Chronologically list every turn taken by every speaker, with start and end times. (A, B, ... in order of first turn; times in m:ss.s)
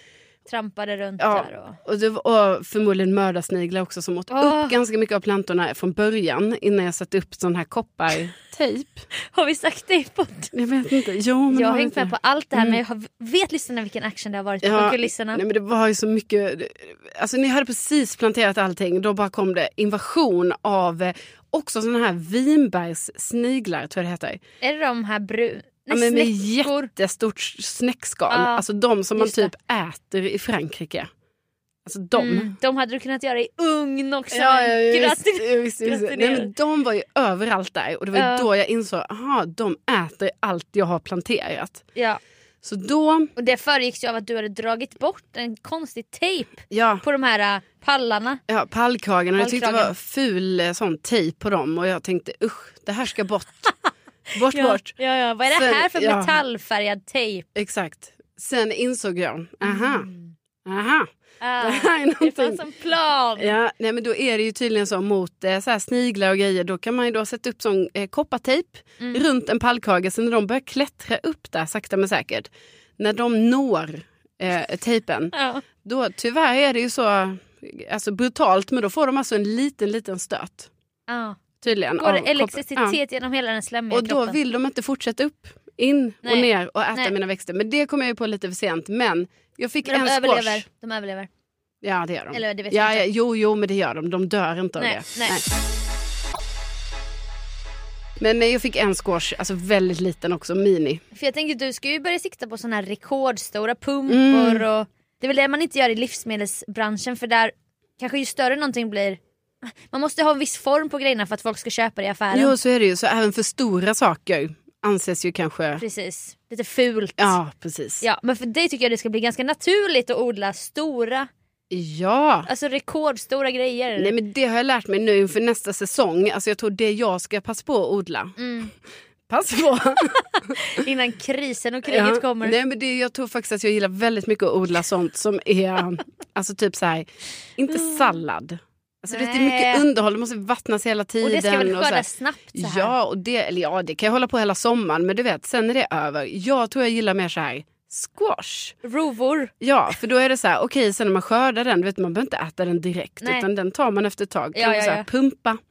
0:00.4-0:01.8 A
0:01.2-0:09.0 B
0:04.3-0:04.8 A
0:09.3-0:10.5 A
0:10.5-0:12.8 B
0:11.5-0:15.4 A
0:14.6-0:24.4 B
0:24.6-0:26.9 A
0:25.9-0:31.1 B
0:28.3-0:29.5 A
0:31.8-0:32.5 B
0:32.1-0:36.5 A
0:34.3-0:41.8 B
0:38.1-0:38.5 A
0:42.6-0:43.3 B
0:43.4-0:48.4 A
0:46.7-0:47.0 B
0:48.5-0:53.7 B
0:49.4-0:49.9 A
0:54.3-0:54.9 B
0:54.4-0:57.4 A
0:55.5-0:56.4 B
0:57.5-1:00.1 B
0:59.6-1:00.3 A
1:00.6-1:01.1 B
1:01.4-1:03.5 A
1:01.6-1:02.6 B
1:03.4-1:20.7 B
1:15.3-1:15.6 A
1:21.1-1:24.4 A
1:21.6-1:23.0 B
1:23.9-1:30.6 B
1:26.2-1:27.1 A
1:29.8-1:31.3 A
1:31.8-1:35.5 B
1:32.3-1:33.1 A
1:34.8-1:35.4 A
1:38.2-1:41.0 B
1:41.1-1:52.5 A
1:44.1-1:44.6 B
1:52.3-1:55.8 B
1:55.8-1:57.4 A
1:57.2-1:58.0 B
1:58.0-2:01.3 A
2:01.7-2:02.5 B
2:02.5-2:04.1 A
2:04.0-2:08.4 B
2:08.4-2:08.7 A
2:09.3-2:10.5 B
2:10.1-2:12.6 A
2:11.9-2:28.8 B
2:17.7-2:18.1 A
2:19.1-2:19.8 A
2:21.2-2:22.9 A
2:28.8-2:29.5 A
2:29.6-2:35.6 B
2:33.2-2:33.5 A
2:34.5-2:35.1 A